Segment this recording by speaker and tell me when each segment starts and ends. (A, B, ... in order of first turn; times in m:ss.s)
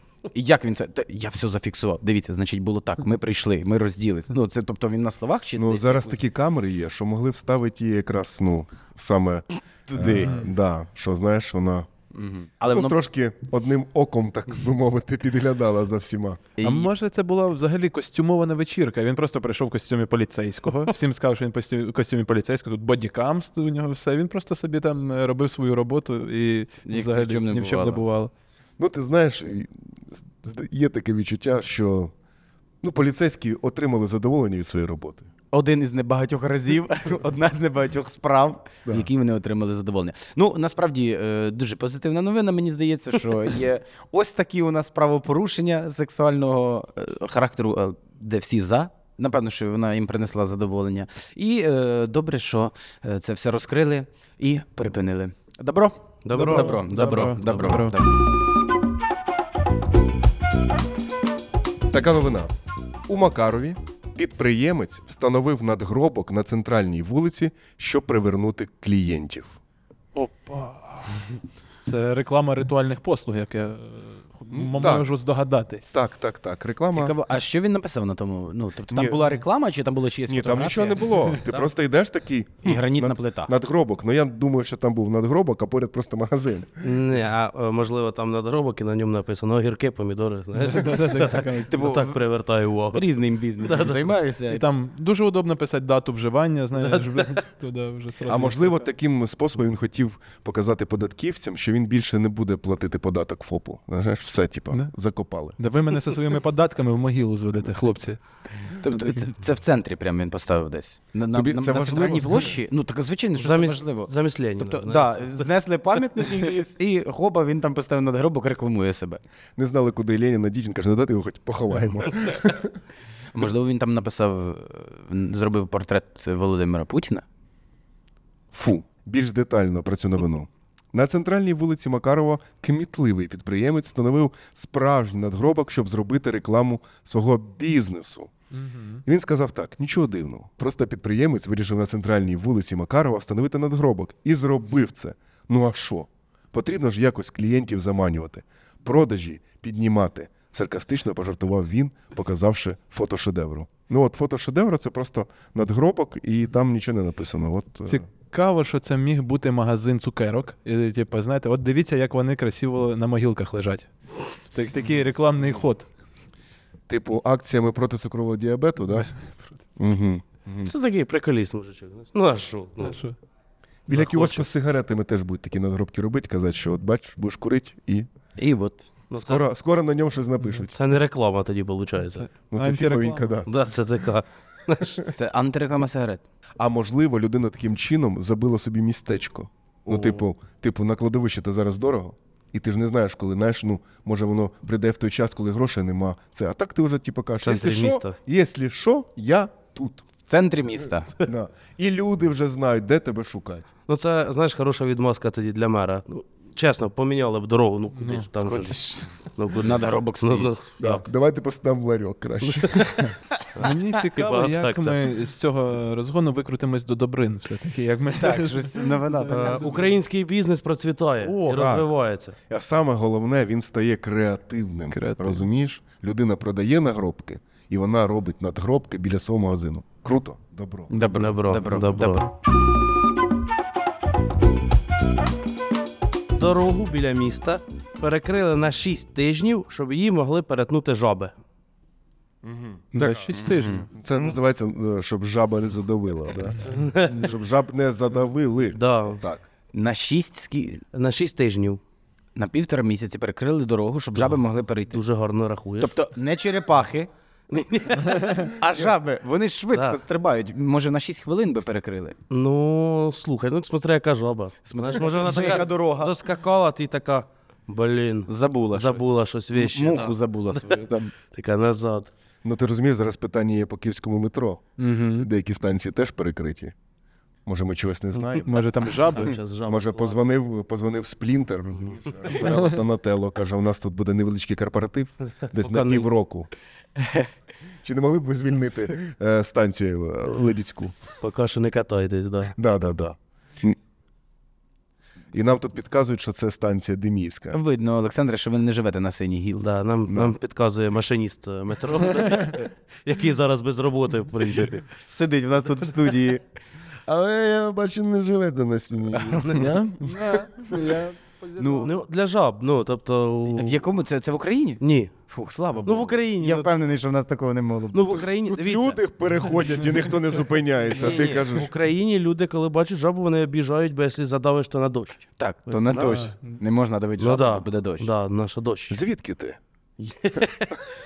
0:00.3-0:06.2 A
0:05.6-0:11.9 B
0:09.9-0:10.4 A
0:12.1-0:13.0 A
0:12.6-0:16.5 B
0:16.6-0:16.9 A
0:16.6-0:28.3 C
0:26.8-0:28.0 A
0:28.8-0:32.1 B
0:32.8-0:35.3 B
0:35.5-0:58.2 A
0:56.2-0:57.5 D
0:56.4-0:58.0 C
1:01.9-1:02.5 B
1:03.1-1:09.5 B
1:10.1-1:11.2 C
1:11.8-1:15.9 C
1:14.5-1:15.1 B
1:15.9-1:17.1 B
1:16.9-1:21.1 A
1:18.9-1:19.3 B
1:20.2-1:26.9 B
1:22.6-1:23.5 A
1:26.8-1:33.0 D
1:30.6-1:31.9 C
1:31.7-1:32.2 A
1:32.9-1:34.6 A
1:33.6-1:34.0 D
1:34.5-1:38.8 C
1:36.8-1:37.3 D
1:38.2-1:45.6 B
1:45.6-1:48.2 C
1:48.8-1:59.2 A
1:51.3-1:52.6 B
1:53.4-1:55.4 D
1:59.6-2:02.8 B
2:03.3-2:07.2 A
2:08.5-2:18.3 B
2:18.5-2:19.0 C
2:19.0-2:38.0 B
2:37.9-2:43.9 C
2:44.4-2:45.9 C
2:46.9-2:49.1 B
2:49.0-2:49.5 C
2:49.8-2:50.7 B
2:50.6-2:53.0 D
2:52.8-2:53.1 C
2:53.9-2:58.1 B
2:53.9-2:54.4 D
2:58.4-2:58.9 A
2:59.1-2:59.4 D
2:59.2-3:00.7 B
3:00.7-3:02.3 D
3:02.1-3:03.3 C
3:02.5-3:03.5 B
3:03.5-3:05.0 D
3:05.0-3:06.2 A
3:06.6-3:20.0 B
3:17.4-3:18.1 D
3:20.3-3:21.1 A
3:21.2-3:23.7 B
3:23.9-3:31.0 D
3:27.9-3:28.3 C
3:28.4-3:30.5 A
3:30.8-3:33.1 B
3:32.4-3:33.0 D
3:33.5-3:35.0 D
3:33.6-3:39.8 C
3:38.2-3:39.9 A
3:39.3-3:42.4 D
3:41.2-3:41.7 C
3:41.5-3:41.9 B
3:42.5-3:50.9 B
3:44.9-3:45.4 C
3:50.9-3:52.2 A
3:51.2-3:52.2 D
3:56.4-4:01.3 D
4:02.4-4:03.2 B
4:02.9-4:03.9 C
4:03.6-4:03.8 A
4:03.9-4:09.4 B
4:06.6-4:07.3 D
4:08.7-4:09.2 D
4:09.7-4:10.8 A
4:10.9-4:11.8 D
4:12.4-4:15.0 A
4:14.9-4:16.0 D
4:15.8-4:17.1 A
4:17.5-4:18.6 D
4:18.6-4:22.2 A
4:19.7-4:20.0 D
4:22.3-4:30.2 D
4:24.7-4:26.1 A
4:28.3-4:31.1 A
4:31.3-4:32.1 D
4:32.4-4:34.6 B
4:34.8-4:35.3 C
4:35.2-4:36.7 B
4:37.4-4:38.6 B
4:38.4-4:39.4 C
4:39.0-4:40.2 D
4:39.7-4:46.5 B
4:42.4-4:42.8 C
4:45.5-4:46.1 D
4:47.0-4:47.2 A
4:47.8-4:51.0 B
4:51.2-4:52.5 D
4:52.5-4:53.8 B
4:55.3-4:57.6 B
4:57.5-4:59.7 A
4:59.6-5:04.8 D
5:00.1-5:00.3 B
5:05.1-5:06.4 A
5:07.0-5:10.5 B
5:09.3-5:09.7 D
5:10.0-5:11.9 C
5:11.6-5:11.9 A
5:11.7-5:13.8 D
5:13.5-5:18.2 A
5:14.8-5:15.1 D
5:15.8-5:16.7 D
5:17.9-5:19.0 D
5:18.3-5:21.7 B
5:20.9-5:26.2 D
5:25.4-5:28.1 A
5:26.0-5:26.6 C
5:27.2-5:29.0 D
5:28.9-5:29.6 B
5:30.0-5:30.7 D